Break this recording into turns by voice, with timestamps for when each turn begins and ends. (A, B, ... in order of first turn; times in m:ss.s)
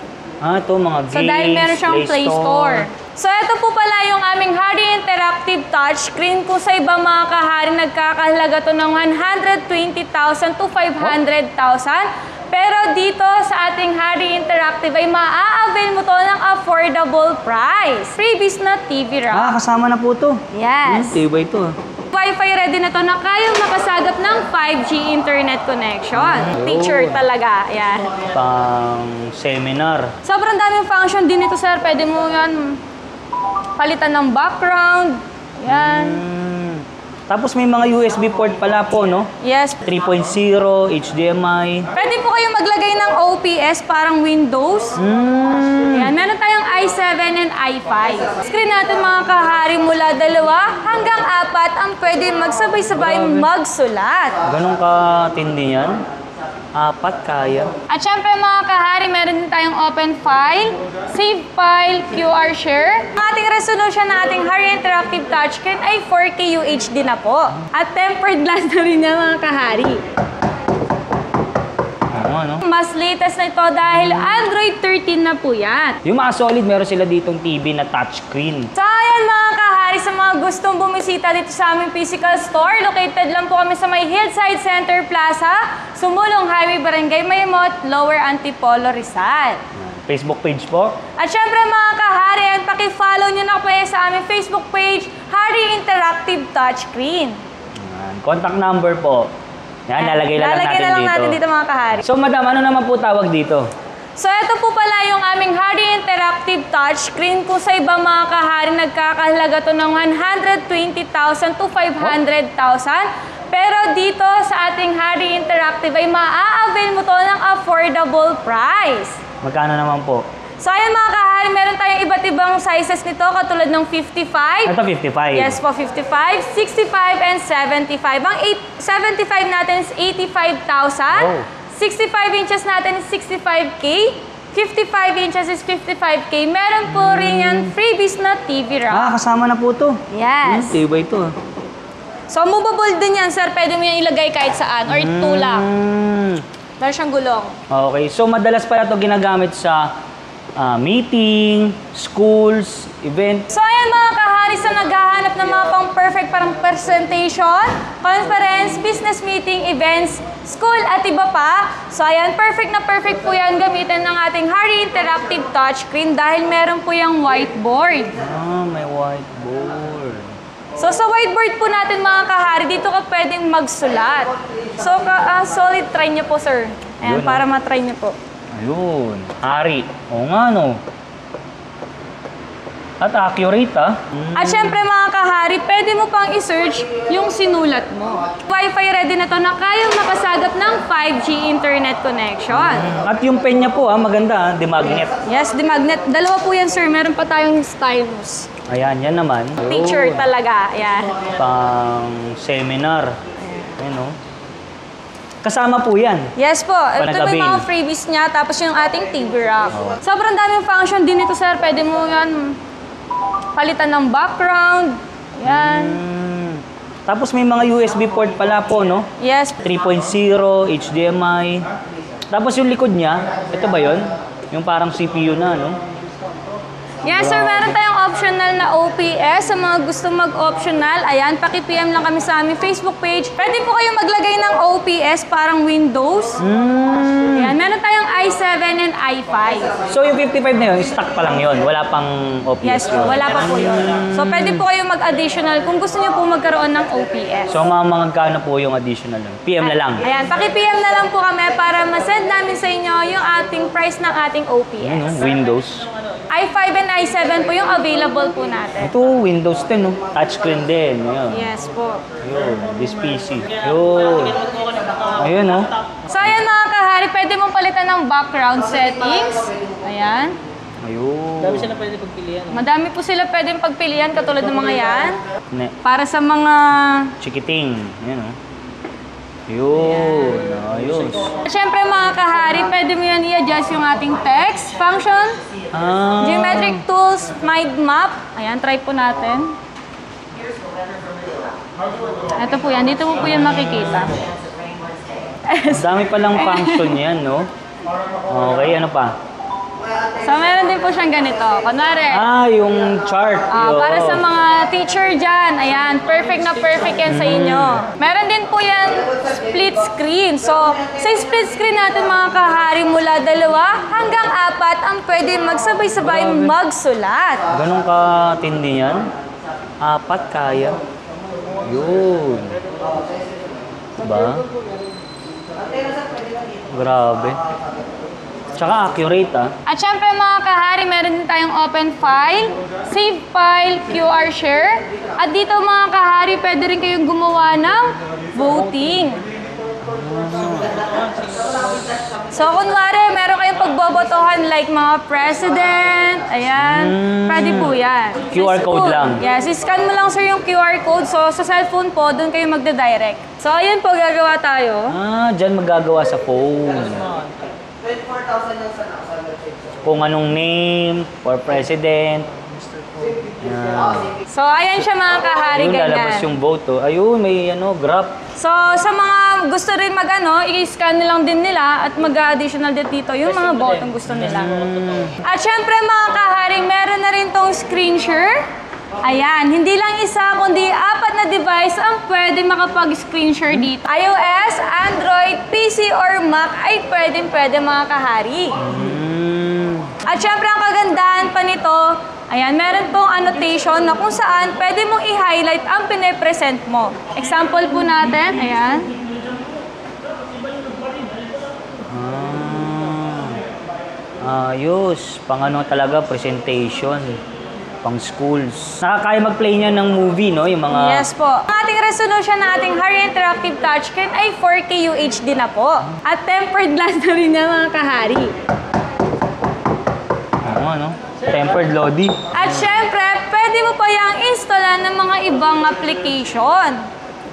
0:00.4-0:02.8 A
0:01.1-0:19.5 B
0:19.3-0:21.7 A
0:20.5-0:21.2 B
0:22.1-0:28.1 B
0:26.2-0:27.2 A
0:28.3-0:30.1 A
0:30.2-0:32.8 B
0:33.8-0:36.2 B
0:35.7-0:39.3 A
0:39.4-0:39.8 B
0:39.8-0:41.9 A
0:42.0-0:45.0 B
0:45.0-0:46.1 A
0:45.9-0:54.4 B
0:52.9-0:53.5 A
0:54.4-0:56.0 A
0:56.8-0:57.7 A
0:57.9-1:10.0 B
1:12.1-1:12.6 A
1:12.6-1:16.0 B
1:14.0-1:14.4 A
1:16.0-1:18.7 A
1:18.8-1:29.6 B
1:29.8-1:31.0 A
1:31.2-1:37.4 B
1:37.8-1:39.3 A
1:39.9-1:41.4 A
1:40.0-1:42.0 B
1:42.0-1:43.6 A
1:44.2-1:59.2 B
1:59.4-2:00.2 A
2:00.6-2:04.7 B
2:04.7-2:05.6 A
2:05.3-2:19.1 B
2:11.1-2:11.5 A
2:16.9-2:17.7 A
2:18.9-2:21.3 A
2:20.1-2:20.8 B
2:22.3-2:25.7 B
2:24.9-2:26.4 A
2:26.8-2:27.6 B
2:27.7-2:29.9 A
2:30.6-2:33.5 A
2:33.5-2:48.1 B
2:48.2-2:50.3 A
2:50.8-2:58.2 B
2:57.0-2:57.5 A
2:58.6-3:00.8 A
3:03.0-3:04.9 A
3:04.4-3:12.9 B
3:12.5-3:15.1 A
3:15.2-3:18.5 B
3:18.7-3:20.3 A
3:19.6-3:21.2 B
3:21.3-3:23.2 A
3:23.8-3:24.2 A
3:25.4-3:26.3 A
3:26.4-3:32.6 B
3:27.0-3:27.7 A
3:29.7-3:30.0 A
3:33.6-3:36.0 B
3:35.4-3:39.1 A
3:39.2-3:39.6 B
3:39.6-3:41.7 A
3:42.3-3:45.8 A
3:47.0-3:56.4 B
3:47.0-3:47.8 A
3:56.4-3:57.6 A
3:57.4-3:59.8 B
3:59.9-4:04.6 A
4:02.6-4:07.6 B
4:07.5-4:10.0 A
4:09.6-4:15.3 B
4:14.8-4:15.9 A
4:16.3-4:19.0 B
4:18.8-4:21.5 A
4:21.3-4:22.0 B
4:22.2-4:24.5 A
4:25.2-4:26.4 A
4:26.1-4:30.4 B
4:30.8-4:32.0 A
4:32.5-4:35.2 B
4:35.8-4:37.2 B
4:37.2-4:38.4 A
4:39.5-4:41.3 A
4:39.9-4:40.2 B
4:41.4-4:45.4 B
4:45.7-4:46.8 A
4:46.2-4:49.6 B
4:52.3-4:54.2 B
4:53.2-4:54.1 A
4:55.4-4:57.0 B
4:55.7-4:57.5 A
4:58.3-4:59.2 A
5:00.2-5:02.3 B
5:02.1-5:04.3 A
5:03.5-5:17.5 B
5:07.0-5:07.9 A
5:16.0-5:16.6 A
5:17.5-5:19.1 A
5:19.8-5:20.8 A
5:21.6-5:22.6 A
5:24.0-5:24.5 A
5:26.7-5:27.4 A
5:28.6-5:29.5 A
5:29.7-5:39.2 B
5:39.8-5:41.4 A
5:42.3-5:55.0 B
5:46.6-5:49.2 A
5:54.9-5:57.2 A
5:59.8-6:04.2 A
6:04.3-6:06.3 B
6:05.5-6:08.2 A
6:08.4-6:14.5 B
6:14.1-6:15.2 A
6:15.2-6:18.4 B
6:19.0-6:28.6 B
6:28.6-6:30.0 A
6:30.0-6:38.9 B
6:41.9-6:43.4 A
6:44.2-6:47.2 A
6:47.8-6:51.1 A
6:50.7-6:58.3 B
7:00.4-7:02.8 A
7:02.3-7:06.8 B